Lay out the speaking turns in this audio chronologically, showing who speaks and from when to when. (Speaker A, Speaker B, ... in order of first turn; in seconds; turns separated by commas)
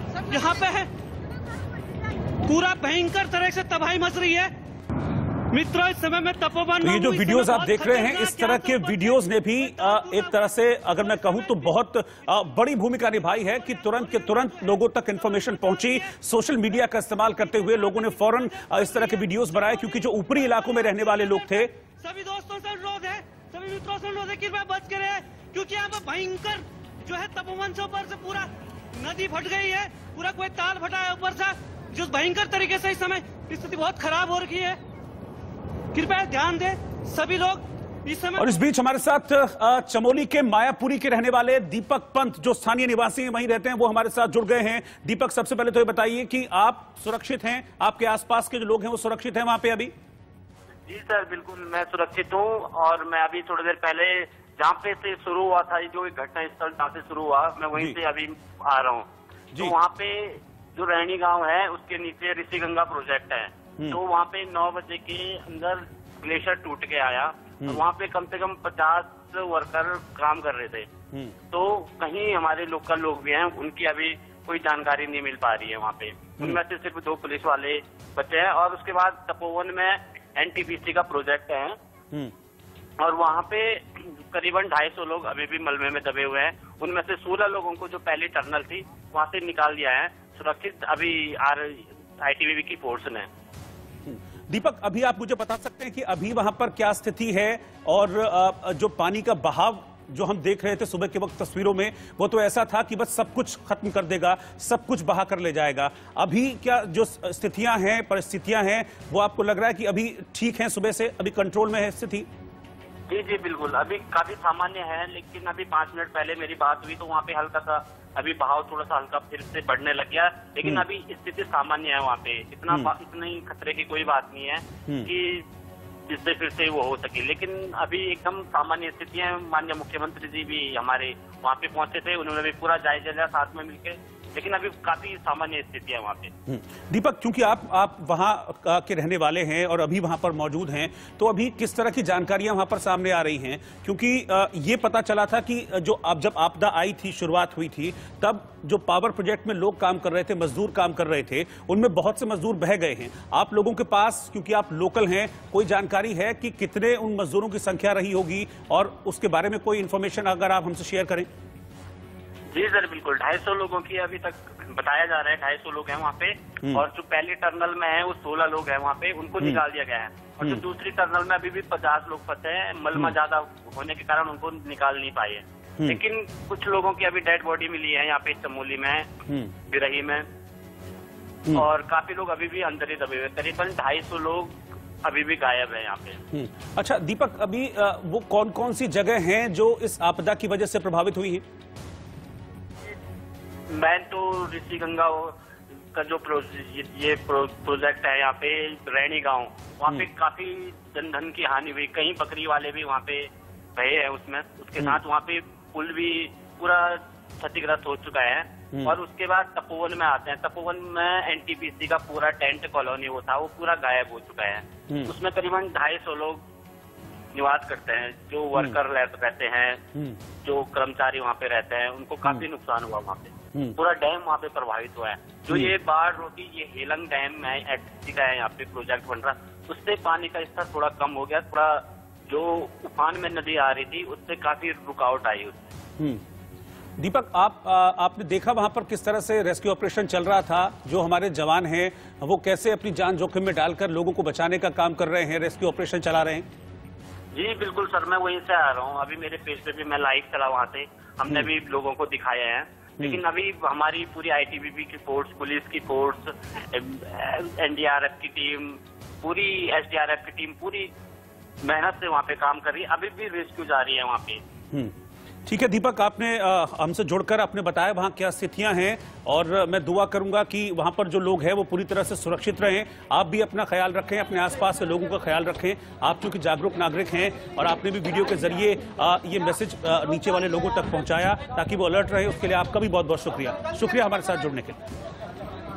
Speaker A: 0.3-0.9, Speaker A: 2.5-4.5, Speaker A: 5.5-10.3, Speaker B: 6.8-21.7, Speaker A: 18.8-19.2, Speaker A: 20.7-34.8, Speaker A: 35.9-38.6, Speaker B: 38.4-49.9, Speaker C: 50.9-70.9, Speaker C: 71.5-81.8, Speaker C: 83.0-93.3, Speaker B: 94.1-112.3, Speaker C: 113.1-125.5, Speaker C: 126.1-136.3, Speaker B: 136.5-161.3, Speaker C: 162.5-179.1, Speaker B: 179.3-179.5, Speaker C: 179.7-180.3, Speaker C: 181.5-186.2, Speaker B: 186.3-191.4, Speaker C: 193.7-195.4, Speaker C: 195.9-216.4, Speaker C: 217.3-219.8, Speaker C: 220.4-235.7, Speaker B: 237.0-246.5, Speaker C: 247.3-260.9, Speaker C: 261.6-264.4, Speaker B: 265.5-284.8